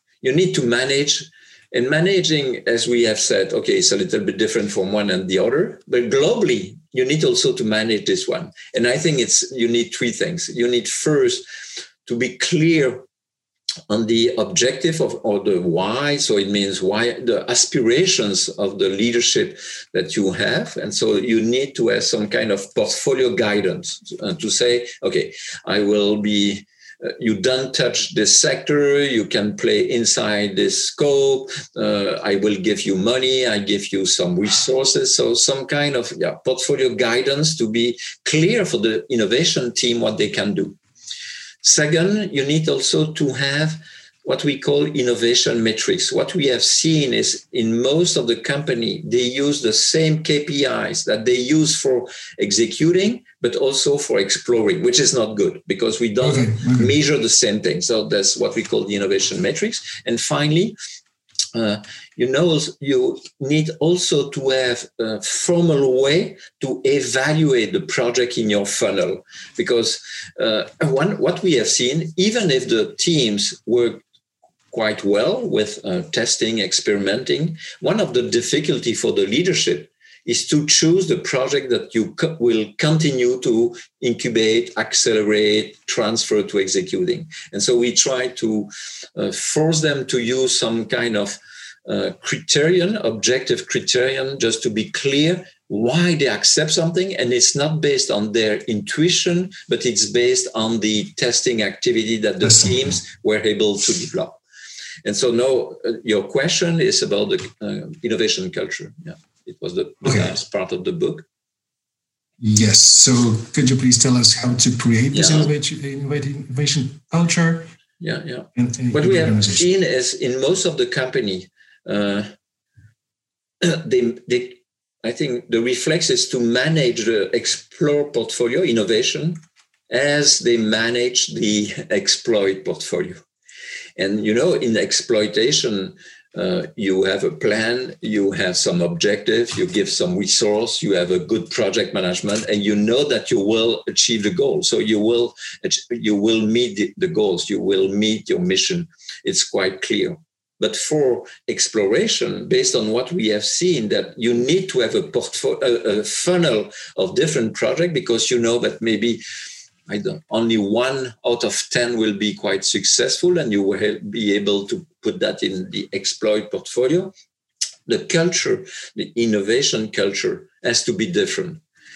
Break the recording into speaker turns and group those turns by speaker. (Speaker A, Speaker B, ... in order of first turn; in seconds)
Speaker A: 0.2-11.4, 12.0-13.0, 13.9-40.8, 41.6-60.8, 61.5-74.0, 74.7-104.4, 105.0-111.2, 115.1-115.5, 118.0-122.3, 123.6-129.4, 129.9-133.2, 134.0-159.2, 159.9-167.1, 167.9-171.6
Speaker B: 56.2-56.9, 102.4-103.0, 110.0-110.3, 112.4-117.7, 118.5-119.7